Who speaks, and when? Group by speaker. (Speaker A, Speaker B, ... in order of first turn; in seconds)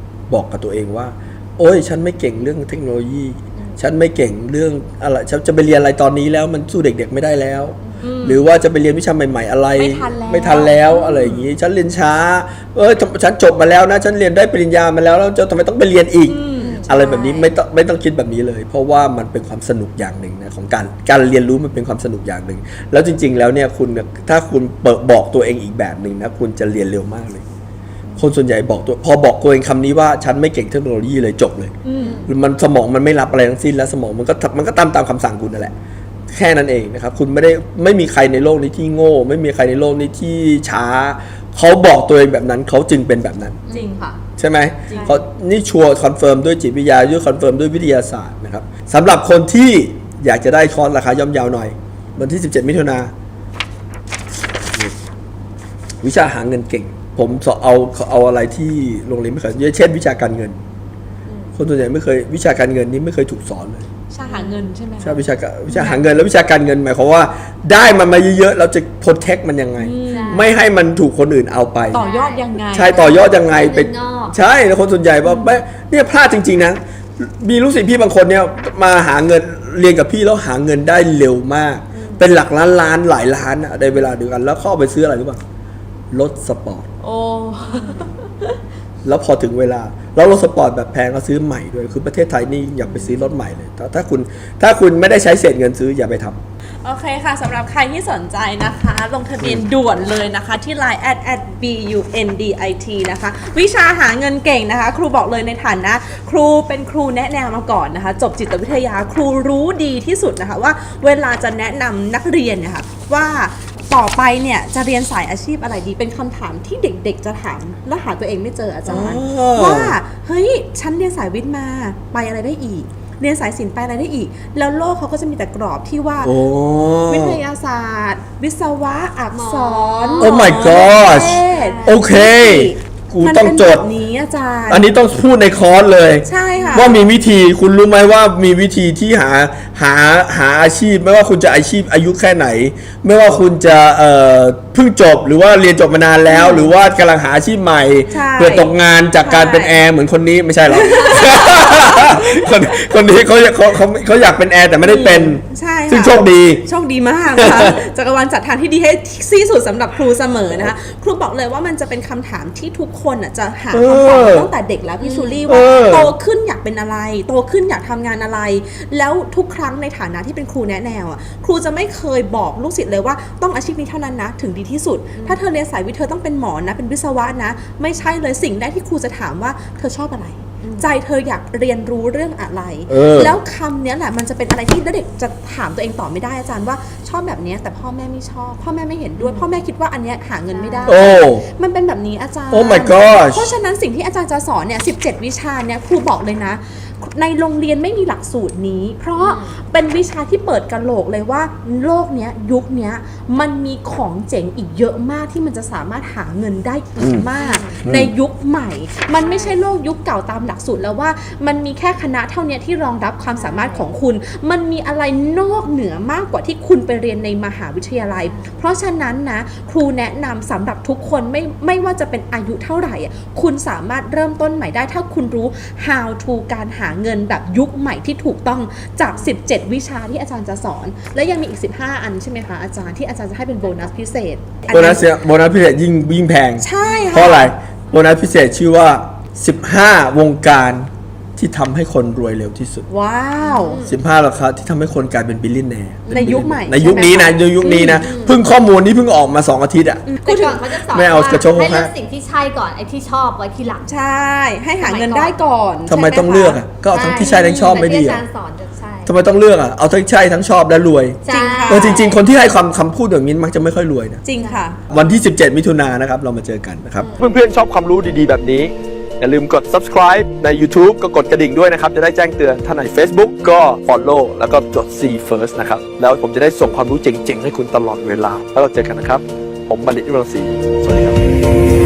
Speaker A: 0.3-27.4, 28.1-35.7, 36.3-43.6, 44.4-53.1, 56.0-60.6, 61.5-63.9, 65.0-72.0, 72.7-85.4, 86.1-86.9, 89.0-96.4, 118.8-120.0, 126.2-127.4, 130.2-133.8, 134.7-156.6, 157.3-157.8, 163.7-164.5, 165.5-166.1, 182.9-183.3, 190.8-191.4, 192.5-193.5, 207.0-207.3, 207.8-208.1, 234.7-242.8, 243.8-250.0, 250.9-251.9, 255.9-258.2, 259.0-264.2, 264.9-281.2
Speaker B: 8.0-8.4, 9.7-11.4, 16.3-17.5, 31.8-32.3, 43.7-44.0, 64.1-66.1, 69.8-70.5, 71.9-73.2, 75.2-75.6, 87.0-88.1, 96.8-126.3, 127.1-134.9, 136.2-137.0, 146.2-146.7, 148.1-149.8, 150.7-153.0, 154.8-235.0, 236.6-237.5, 242.9-243.8, 246.1-248.1, 250.1-250.8, 253.8-256.6, 257.2-257.8, 261.3-262.1, 264.2-264.8
Speaker C: 16.6-17.0, 32.0-32.3, 43.7-44.2, 44.9-45.2, 61.3-61.5, 64.2-64.7, 70.1-70.5, 71.9-74.3, 81.9-82.2, 87.8-88.1, 129.3-132.0, 136.5-136.9, 165.0-165.6, 180.6-180.9, 189.2-189.5, 190.5-191.0, 199.2-199.6, 207.4-207.8, 209.2-209.6, 213.3-213.9, 218.3-218.6, 236.8-237.3, 243.4-244.0, 246.1-246.4, 247.7-248.4, 250.2-253.9, 254.8-255.4, 256.9-259.1, 261.2-262.2, 264.4-264.6, 267.0-267.4